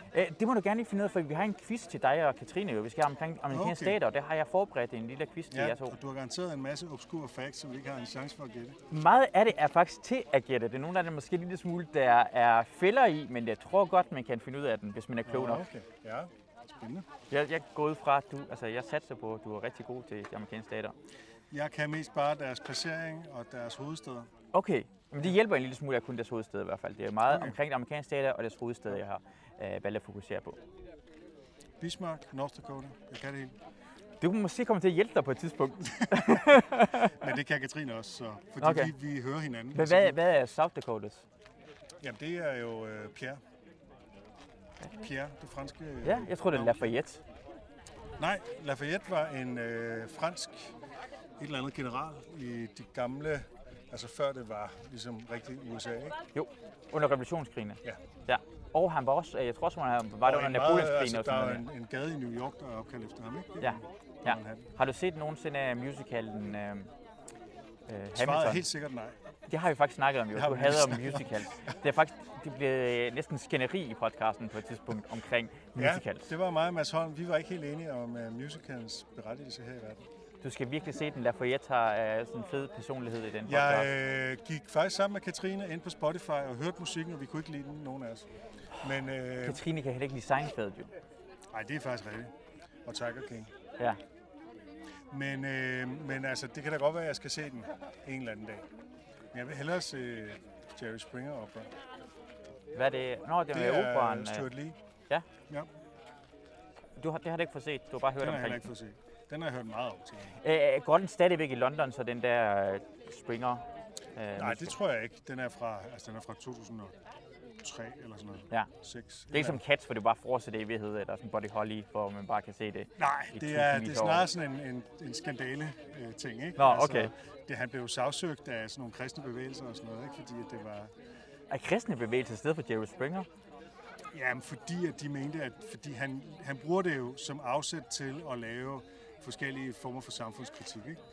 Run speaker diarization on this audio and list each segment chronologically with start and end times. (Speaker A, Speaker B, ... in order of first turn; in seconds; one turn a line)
Speaker A: 0.1-5.9
Speaker B: 3.5-4.0
Speaker B: 5.5-8.8
Speaker A: 8.9-15.6
Speaker B: 15.3-17.1
Speaker A: 17.3-20.9
Speaker B: 21.5-24.3
Speaker A: 24.5-30.6
Speaker B: 27.3-27.6
Speaker B: 31.8-33.5
Speaker A: 34.2-37.0
Speaker B: 37.2-40.2
Speaker A: 38.6-38.9
Speaker A: 39.7-41.2
Speaker B: 42.0-43.4
Speaker B: 45.0-46.9
Speaker A: 46.0-47.2
Speaker B: 48.2-50.7
Speaker B: 51.4-56.2
Speaker A: 56.3-61.6
Speaker B: 60.2-64.7
Speaker A: 63.6-66.9
Speaker A: 67.9-68.6
Speaker B: 68.2-69.2
Speaker A: 69.5-76.3
Speaker B: 70.3-71.4
Speaker B: 75.8-80.0
Speaker A: 80.4-83.9
Speaker B: 83.5-88.2
Speaker B: 88.8-89.6
Speaker A: 89.4-90.9
Speaker B: 91.5-92.3
Speaker B: 92.9-93.5
Speaker B: 95.1-98.6
Speaker B: 99.3-101.7
Speaker A: 102.8-104.5
Speaker B: 103.5-104.8
Speaker A: 107.0-108.6
Speaker B: 108.2-110.3
Speaker A: 110.4-113.6
Speaker A: 114.2-114.8
Speaker B: 114.4-116.9
Speaker B: 117.6-119.6
Speaker A: 119.3-124.3
Speaker B: 123.0-130.9
Speaker A: 126.6-127.1
Speaker A: 131.5-133.3
Speaker B: 134.1-141.0